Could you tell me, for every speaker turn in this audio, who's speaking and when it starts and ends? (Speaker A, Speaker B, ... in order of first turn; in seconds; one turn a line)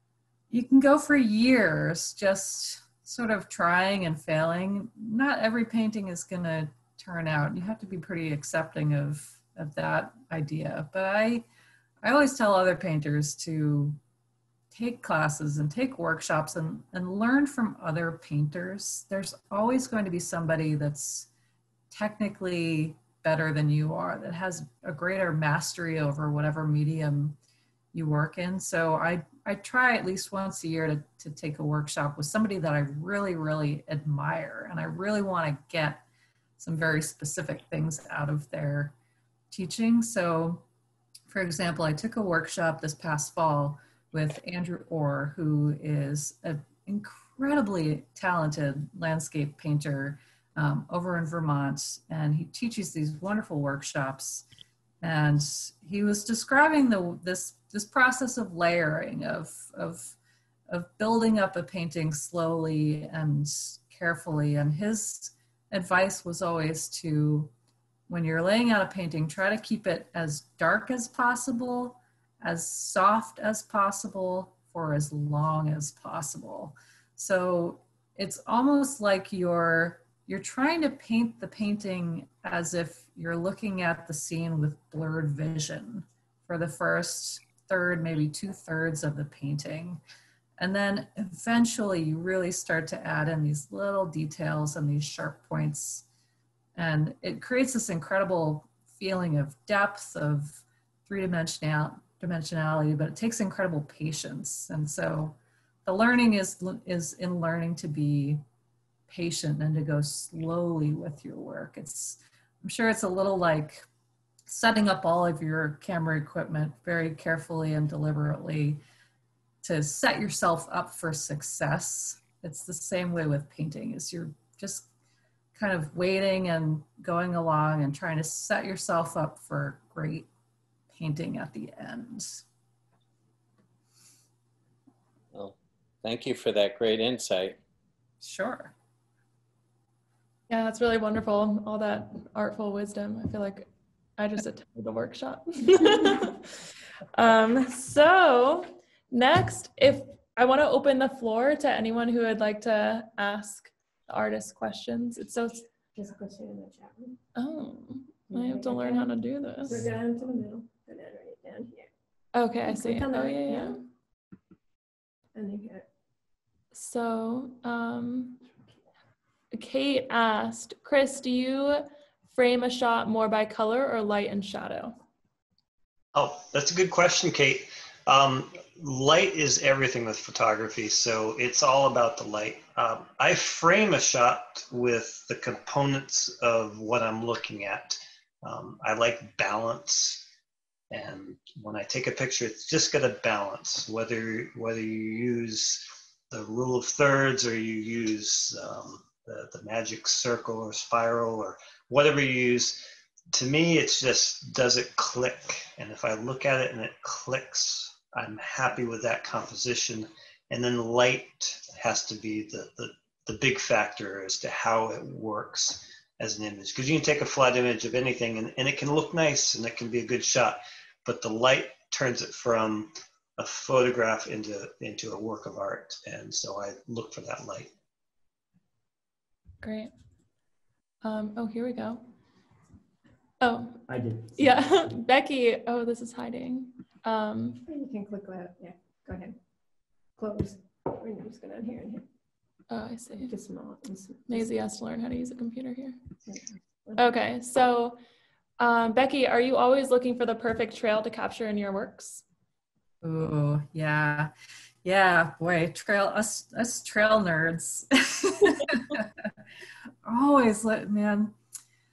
Speaker A: 0.5-11.5
Speaker A: 12.0-14.0
Speaker A: 14.7-21.3
Speaker A: 21.9-27.4
Speaker A: 27.9-36.0
Speaker A: 36.6-39.0
Speaker A: 39.5-40.6
Speaker A: 41.3-54.5
Speaker A: 55.0-60.2
Speaker A: 60.7-67.5
Speaker A: 68.1-90.0
Speaker A: 90.6-96.0
Speaker A: 96.8-108.4
Speaker A: 109.1-113.9
Speaker A: 114.5-118.8
Speaker A: 119.6-124.9
Speaker A: 125.5-130.3
Speaker A: 130.9-132.4
Speaker B: 135.3-137.6
Speaker A: 138.2-138.7
Speaker C: 140.5-146.6
Speaker C: 147.1-155.7
Speaker D: 155.9-157.2
Speaker C: 157.4-159.8
Speaker D: 158.3-159.1
Speaker D: 159.7-161.9
Speaker C: 162.3-163.8
Speaker D: 162.7-163.8
Speaker D: 165.3-165.8
Speaker C: 166.7-168.4
Speaker C: 169.5-175.0
Speaker E: 176.1-190.3
Speaker E: 190.9-227.7
Speaker C: 229.6-229.9
Speaker C: 231.0-232.0
Speaker C: 233.4-237.6
Speaker D: 237.7-239.3
Speaker D: 240.2-242.1
Speaker C: 242.7-243.3
Speaker D: 243.1-244.6
Speaker C: 244.3-246.0
Speaker D: 246.3-247.1
Speaker C: 247.0-248.0
Speaker C: 248.6-252.2
Speaker A: 253.0-254.3
Speaker A: 254.8-259.3
Speaker A: 260.1-261.4